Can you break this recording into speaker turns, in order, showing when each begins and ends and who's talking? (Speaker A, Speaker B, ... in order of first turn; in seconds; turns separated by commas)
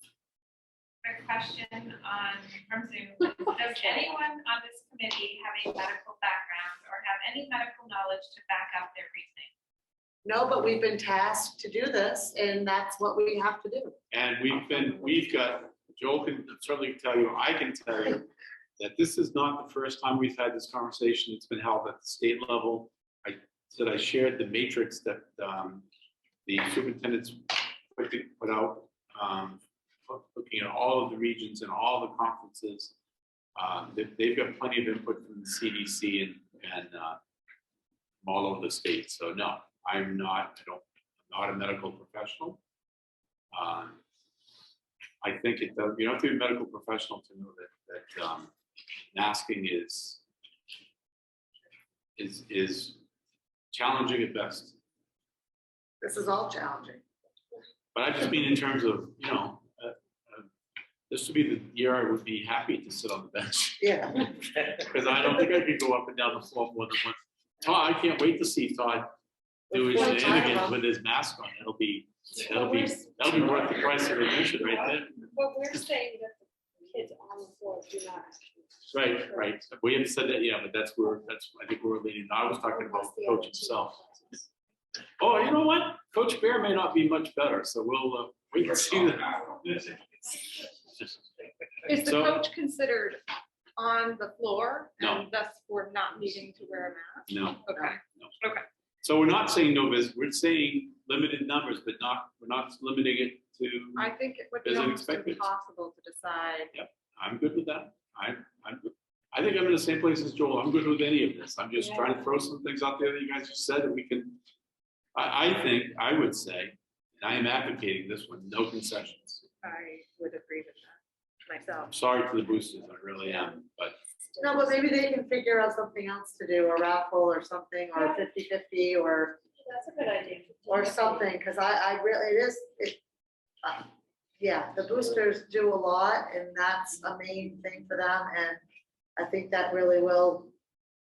Speaker A: 1.0-9.5, Speaker B: 10.2-14.0, Speaker C: 14.1-25.9, Speaker C: 26.4-32.9, Speaker C: 33.5-37.2, Speaker C: 38.2-42.6, Speaker C: 43.5-44.0, Speaker C: 45.2-48.5, Speaker C: 49.1-50.2, Speaker C: 52.2-53.0, Speaker C: 53.7-54.8, Speaker B: 56.0-57.0, Speaker C: 57.9-60.5, Speaker C: 61.1-63.8, Speaker B: 63.8-64.3, Speaker C: 64.7-69.1, Speaker C: 69.7-75.1, Speaker B: 69.7-70.8, Speaker D: 74.8-79.2, Speaker C: 78.9-84.4, Speaker D: 82.6-84.3, Speaker C: 85.2-90.4, Speaker C: 91.0-91.2, Speaker E: 91.8-93.2, Speaker C: 91.9-92.4, Speaker E: 93.8-98.7, Speaker C: 97.3-98.3, Speaker C: 99.0-104.1, Speaker E: 104.0-106.7, Speaker C: 104.6-105.4, Speaker C: 106.7-114.4, Speaker C: 115.1-119.4, Speaker E: 119.6-121.9, Speaker C: 121.9-124.0, Speaker B: 124.4-129.4, Speaker D: 127.9-128.2, Speaker D: 129.6-131.3, Speaker B: 130.7-133.0, Speaker B: 133.6-133.9, Speaker B: 134.4-138.6, Speaker B: 139.2-140.5